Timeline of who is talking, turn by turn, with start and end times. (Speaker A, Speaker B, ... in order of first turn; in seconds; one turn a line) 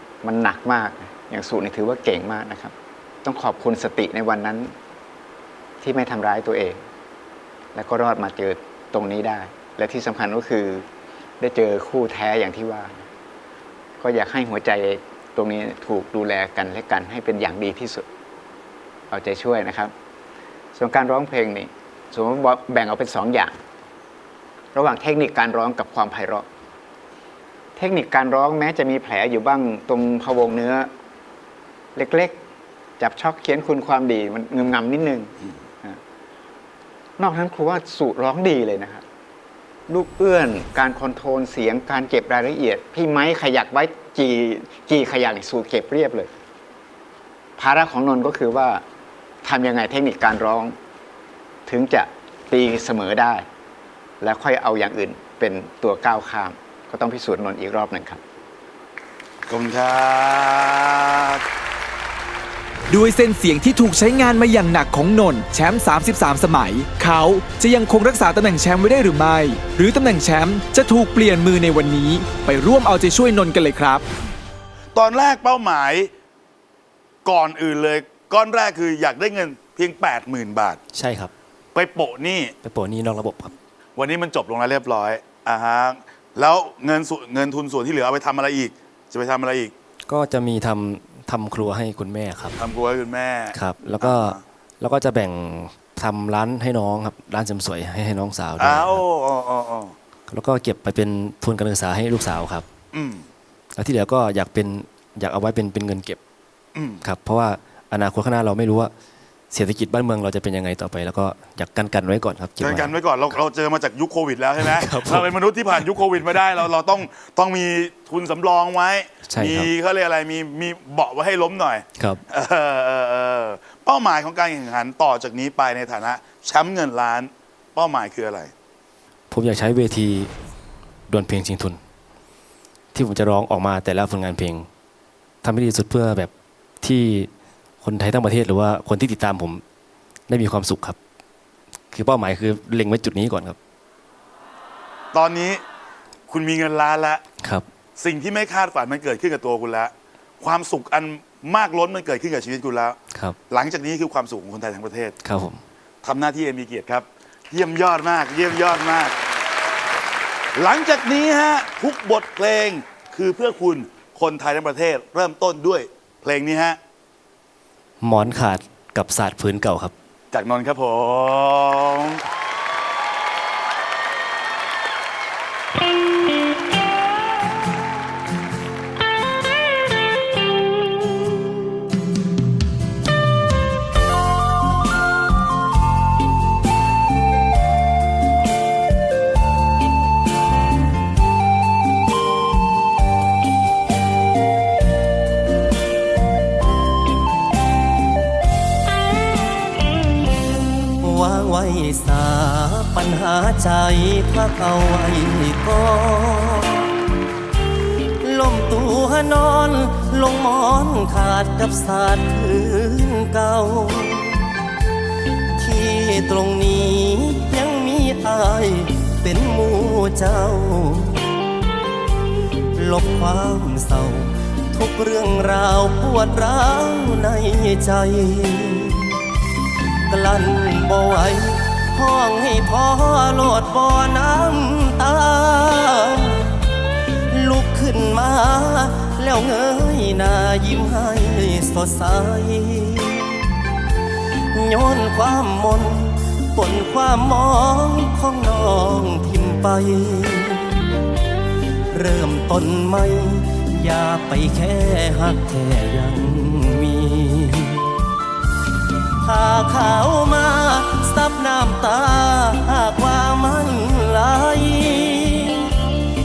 Speaker A: 0.2-4.7
Speaker A: 5.8-6.8
Speaker A: 7.8-10.8
Speaker A: 11.4-13.0
Speaker A: 14.0-18.1
Speaker A: 19.1-19.9
Speaker A: 20.8-23.6
Speaker A: 24.8-26.5
Speaker A: 27.8-30.9
Speaker A: 31.9-32.4
Speaker A: 33.0-36.0
Speaker A: 37.2-39.0
Speaker A: 39.9-46.3
Speaker A: 47.6-48.8
Speaker A: 49.4-50.8
Speaker A: 51.7-53.5
Speaker A: 54.2-58.2
Speaker B: 59.5-61.4
Speaker C: 62.9-74.0
Speaker B: 75.0-76.1
Speaker B: 77.2-80.8
Speaker D: 80.9-81.3
Speaker B: 81.7-82.5
Speaker D: 82.6-83.5
Speaker B: 84.0-89.7
Speaker D: 90.1-92.6
Speaker B: 92.6-94.4
Speaker D: 93.5-99.0
Speaker B: 98.6-99.9
Speaker D: 100.3-102.7
Speaker B: 102.9-103.2
Speaker D: 103.8-106.2
Speaker B: 106.8-107.0
Speaker D: 107.0-108.9
Speaker D: 109.5-112.9
Speaker B: 112.6-128.5
Speaker D: 114.6-116.5
Speaker D: 119.3-119.7
Speaker D: 122.0-122.2
Speaker D: 129.3-130.3
Speaker D: 131.1-131.8
Speaker D: 132.9-134.7
Speaker D: 135.4-137.3
Speaker D: 137.8-139.6
Speaker D: 140.3-141.0
Speaker D: 141.9-143.6
Speaker B: 145.1-145.6
Speaker B: 146.3-147.2
Speaker D: 147.4-147.7
Speaker B: 148.0-153.0
Speaker B: 153.5-155.2
Speaker D: 155.2-155.6
Speaker B: 156.0-159.1
Speaker B: 160.6-166.8
Speaker D: 168.0-169.9
Speaker B: 170.3-172.2
Speaker E: 201.0-206.9
Speaker E: 208.2-214.5
Speaker E: 215.6-221.3
Speaker E: 222.8-229.2
Speaker E: 230.1-236.6
Speaker E: 237.3-243.4
Speaker E: 244.5-250.8
Speaker E: 251.9-257.9
Speaker E: 259.2-265.7